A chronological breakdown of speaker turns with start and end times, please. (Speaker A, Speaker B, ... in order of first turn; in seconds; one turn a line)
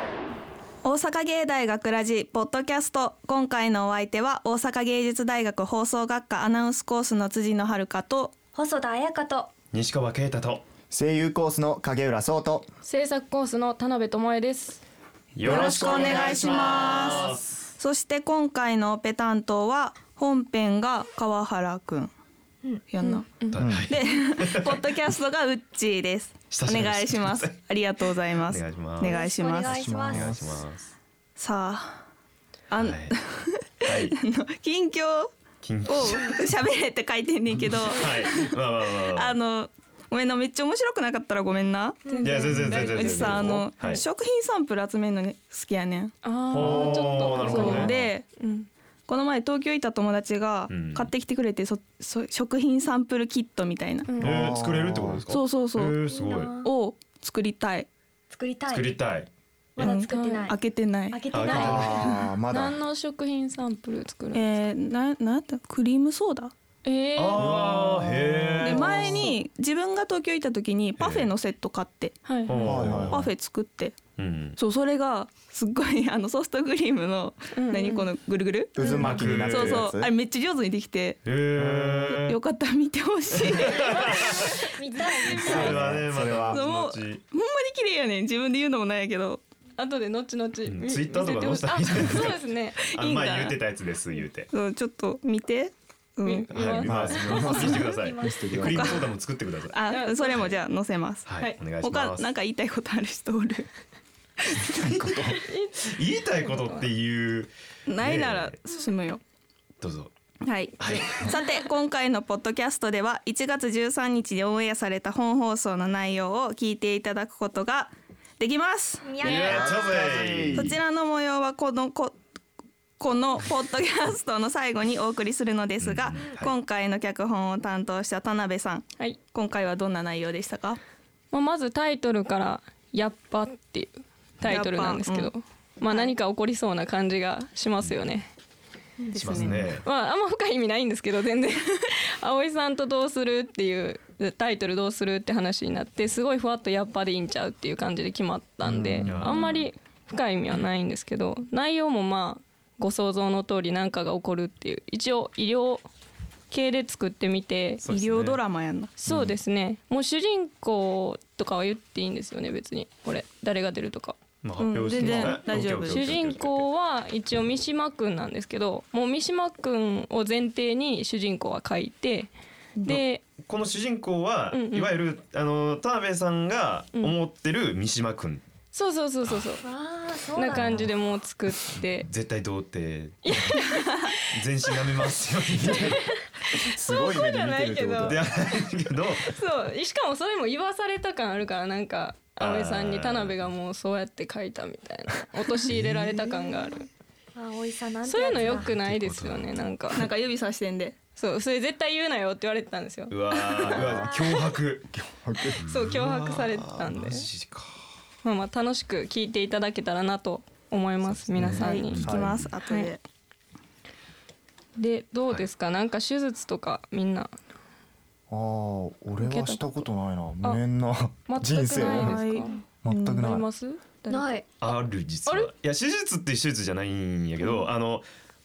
Speaker A: 0.8-8.3
Speaker B: 8.5-9.5
Speaker C: 9.7-10.7
Speaker D: 10.9-12.7
Speaker E: 12.8-14.8
Speaker C: 15.4-17.6
Speaker D: 15.4-17.4
Speaker A: 15.4-22.1
Speaker B: 22.6-23.2
Speaker A: 22.9-23.3
Speaker C: 23.5-24.9
Speaker D: 23.6-23.9
Speaker A: 23.9-29.9
Speaker C: 26.5-27.6
Speaker C: 28.5-29.2
Speaker B: 29.0-30.4
Speaker D: 29.6-30.6
Speaker C: 30.0-30.9
Speaker A: 31.4-32.0
Speaker A: 32.7-35.3
Speaker C: 32.8-33.1
Speaker C: 33.8-34.2
Speaker C: 35.6-36.4
Speaker A: 35.9-46.1
Speaker C: 37.9-39.4
Speaker B: 42.1-42.5
Speaker E: 42.1-43.6
Speaker C: 42.2-44.0
Speaker E: 46.2-48.7
Speaker C: 46.5-48.0
Speaker D: 46.5-48.1
Speaker A: 47.4-48.3
Speaker A: 49.1-54.2
Speaker C: 50.7-51.1
Speaker E: 54.1-54.4
Speaker D: 54.2-55.2
Speaker C: 54.2-56.6
Speaker A: 55.3-56.0
Speaker B: 56.1-56.7
Speaker A: 56.6-57.9
Speaker B: 58.3-58.9
Speaker C: 58.7-59.3
Speaker B: 59.8-60.6
Speaker E: 59.8-60.6
Speaker A: 59.8-61.2
Speaker B: 61.1-62.3
Speaker C: 61.3-62.1
Speaker D: 61.5-62.8
Speaker E: 62.5-64.5
Speaker A: 64.3-66.5
Speaker E: 66.8-67.7
Speaker C: 67.2-69.3
Speaker D: 67.3-69.3
Speaker A: 68.6-72.2
Speaker C: 71.0-71.3
Speaker E: 72.3-72.6
Speaker C: 72.5-73.3
Speaker D: 72.6-73.3
Speaker A: 73.1-74.0
Speaker C: 74.2-74.6
Speaker A: 74.6-81.2
Speaker E: 77.5-78.1
Speaker D: 78.7-80.1
Speaker C: 79.0-79.9
Speaker C: 81.3-82.4
Speaker D: 81.5-82.2
Speaker A: 82.1-84.2
Speaker C: 83.4-84.5
Speaker E: 84.4-85.9
Speaker B: 84.5-85.8
Speaker D: 85.3-86.7
Speaker C: 85.5-87.2
Speaker A: 86.5-89.4
Speaker E: 89.8-92.8
Speaker C: 90.7-94.5
Speaker A: 92.9-93.6
Speaker A: 94.5-96.5
Speaker E: 96.2-98.4
Speaker C: 96.5-99.8
Speaker D: 96.8-99.1
Speaker A: 98.6-99.0
Speaker A: 99.7-103.7
Speaker E: 99.9-100.5
Speaker C: 101.3-102.3
Speaker D: 104.7-105.4
Speaker E: 105.3-106.9
Speaker C: 105.8-108.5
Speaker A: 107.9-109.2
Speaker C: 109.8-110.1
Speaker A: 110.4-119.6
Speaker C: 110.8-111.3
Speaker B: 119.0-120.0
Speaker C: 119.2-120.8
Speaker D: 119.4-120.8
Speaker A: 120.5-122.2
Speaker A: 123.0-130.8
Speaker C: 125.8-126.5
Speaker E: 131.3-138.3
Speaker A: 134.4-135.3
Speaker B: 139.0-139.4
Speaker C: 139.2-139.8
Speaker A: 139.2-139.6
Speaker E: 139.4-155.8
Speaker D: 148.7-149.4
Speaker C: 149.1-149.7
Speaker E: 156.5-157.8
Speaker C: 157.8-158.4
Speaker A: 157.9-158.9
Speaker E: 159.0-172.3
Speaker C: 164.4-166.7
Speaker A: 164.7-166.0
Speaker A: 172.8-173.0
Speaker E: 172.8-173.2
Speaker C: 173.4-178.4
Speaker E: 174.5-174.9
Speaker E: 178.7-179.7
Speaker B: 179.6-180.9
Speaker E: 180.3-182.1
Speaker C: 182.1-183.5
Speaker E: 183.2-184.2
Speaker C: 184.3-186.0
Speaker D: 185.6-186.0
Speaker E: 185.7-188.3
Speaker D: 186.5-188.3
Speaker C: 188.1-189.3
Speaker E: 189.2-196.9
Speaker C: 192.4-193.4
Speaker B: 197.3-198.8
Speaker E: 198.1-200.1
Speaker C: 198.4-199.5
Speaker A: 199.9-201.0
Speaker E: 201.2-203.8
Speaker C: 203.1-204.9
Speaker D: 203.8-204.1
Speaker D: 204.9-205.6
Speaker C: 205.6-207.8
Speaker E: 205.7-207.3
Speaker E: 208.2-212.1
Speaker C: 211.1-212.5
Speaker A: 211.4-213.0
Speaker E: 214.8-217.3
Speaker D: 218.3-222.2
Speaker E: 219.2-219.9
Speaker E: 221.3-224.4
Speaker A: 221.8-223.2
Speaker D: 222.8-223.5
Speaker B: 224.1-224.4
Speaker C: 224.6-228.1